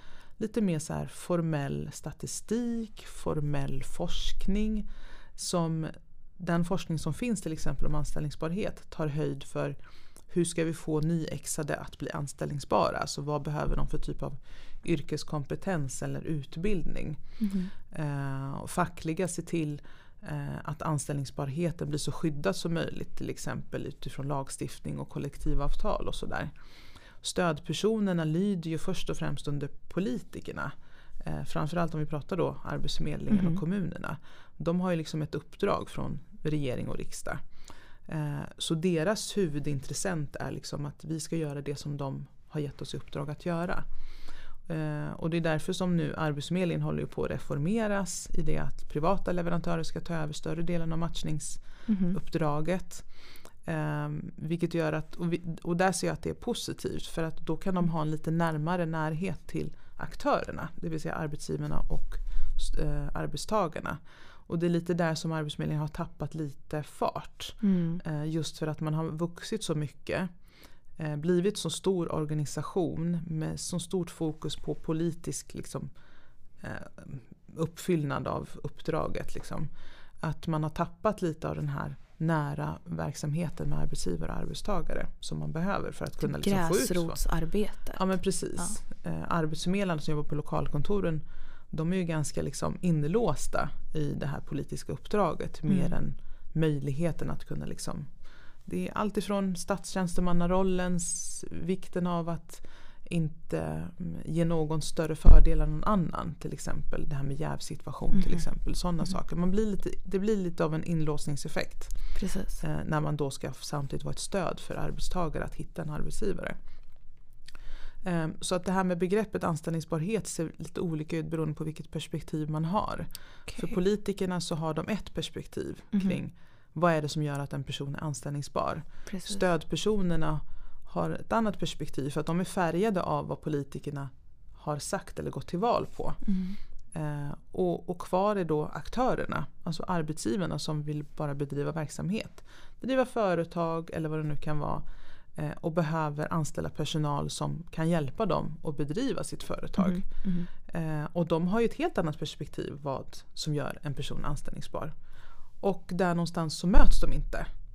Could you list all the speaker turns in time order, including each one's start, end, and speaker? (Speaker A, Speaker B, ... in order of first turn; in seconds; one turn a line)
Speaker A: 0.4-17.4
Speaker B: 17.4-17.7
Speaker A: 17.9-75.9
Speaker B: 33.3-33.6
Speaker B: 51.9-52.2
Speaker B: 67.6-68.0
Speaker A: 76.6-79.7
Speaker A: 80.2-87.2
Speaker B: 86.2-88.8
Speaker A: 87.9-116.6
Speaker B: 95.7-96.0
Speaker B: 112.2-112.6
Speaker A: 118.0-136.2
Speaker B: 123.5-123.8
Speaker B: 125.9-126.2
Speaker B: 129.1-129.4
Speaker B: 136.2-136.6
Speaker A: 136.9-155.0
Speaker B: 149.8-150.5
Speaker A: 155.6-157.5